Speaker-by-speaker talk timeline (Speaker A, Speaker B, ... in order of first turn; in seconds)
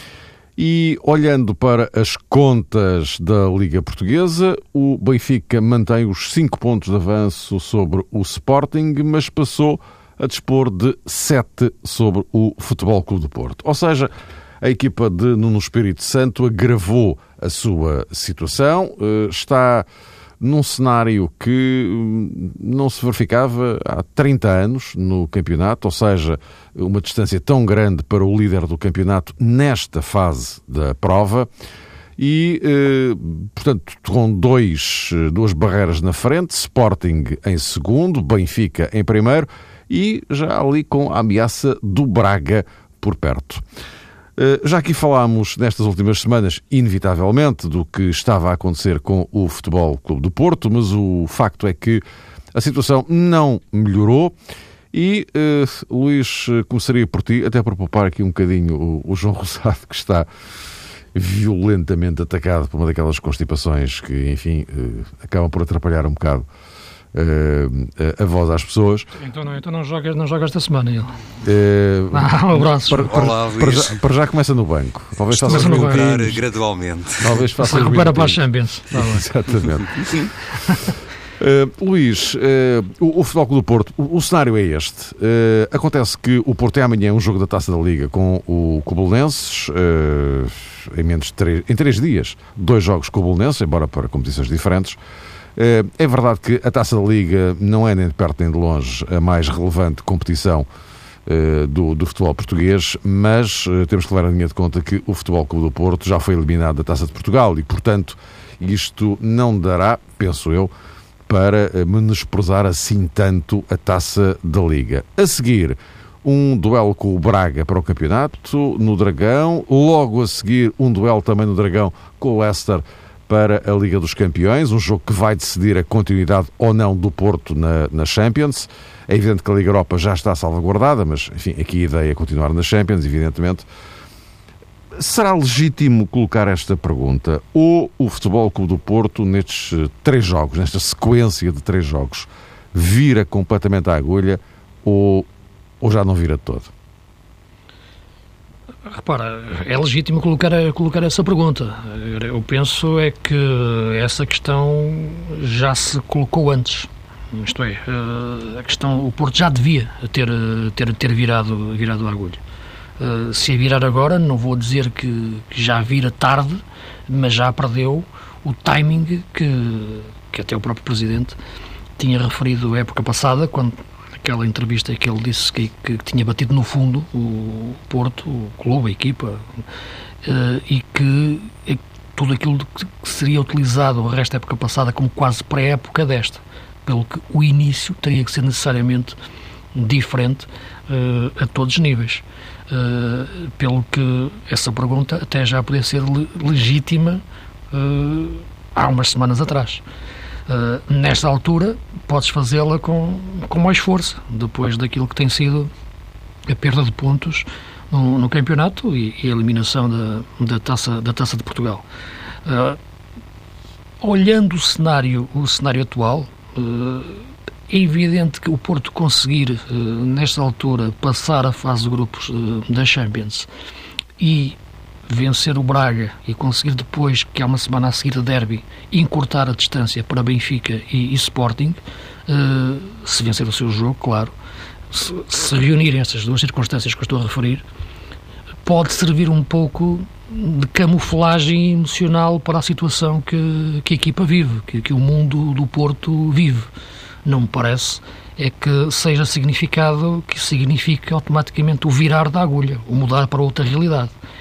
Speaker A: 0.6-19.9, 20.4-31.5, 32.2-43.6, 44.4-52.0, 52.5-54.3, 54.9-60.3, 61.1-66.5, 67.1-69.1, 71.4-76.4, 77.2-80.3, 81.4-95.0, 95.6-100.7, 101.3-110.7, 111.3-133.7, 135.0-145.3, 145.8-146.7
Speaker B: 69.2-71.2, 72.1-73.1, 75.5-76.1, 77.6-79.3, 148.9-162.4, 163.0-171.4, 172.0-179.4, 180.2-189.2, 189.7-199.8, 200.5-205.7, 206.5-211.8, 212.4-212.8, 214.0-223.5, 224.2-234.3, 234.9-237.6, 238.7-246.7, 247.2-254.1
Speaker C: 73.0-74.0, 75.3-77.5